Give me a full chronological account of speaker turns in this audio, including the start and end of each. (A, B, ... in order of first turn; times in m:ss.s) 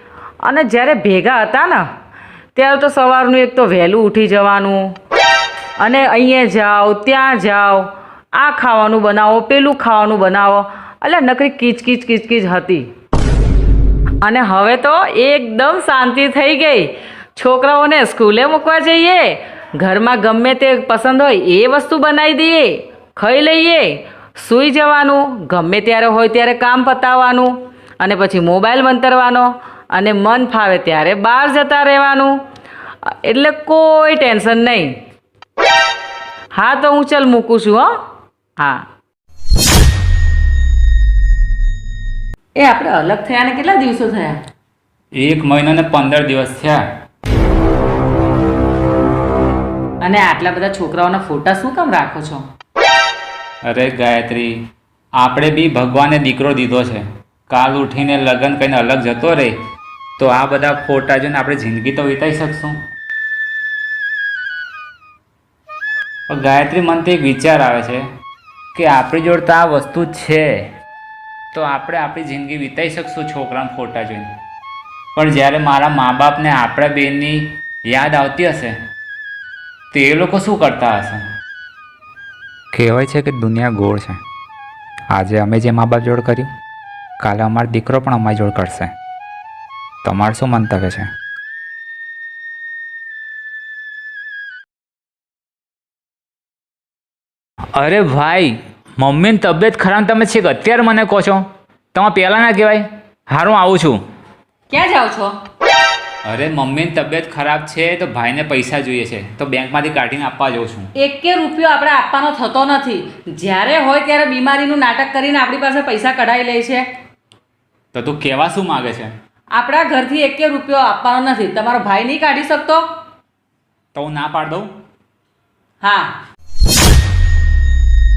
0:00.4-0:01.8 A
0:02.6-0:04.9 A
0:05.8-0:12.8 A
0:14.2-0:32.4 A
0:33.0-0:34.9 A
0:36.5-0:37.9 A
0:38.6-0:38.9 A
0:42.6-0:44.4 A
0:45.1-0:46.8 B
0:50.0-0:52.4 A
0:53.6-0:54.6 B
0:55.2-0:59.5 B
1:00.2-1:02.8 B
1:06.3-1:08.0 B
1:08.7-1:10.5 B
1:11.5-1:14.3 B
1:15.2-1:18.7 B
1:19.9-1:21.2 B
1:22.7-1:24.2 B
1:25.1-1:26.5 B
1:27.2-1:28.9 B
1:30.0-1:31.1 B
1:37.7-1:44.0 B
1:44.7-1:45.3 A
1:46.2-1:50.9 B
1:51.0-1:56.8 A
1:57.9-1:59.1 B
1:59.5-2:02.8 A
2:03.9-2:04.7 B
2:05.8-2:06.1 A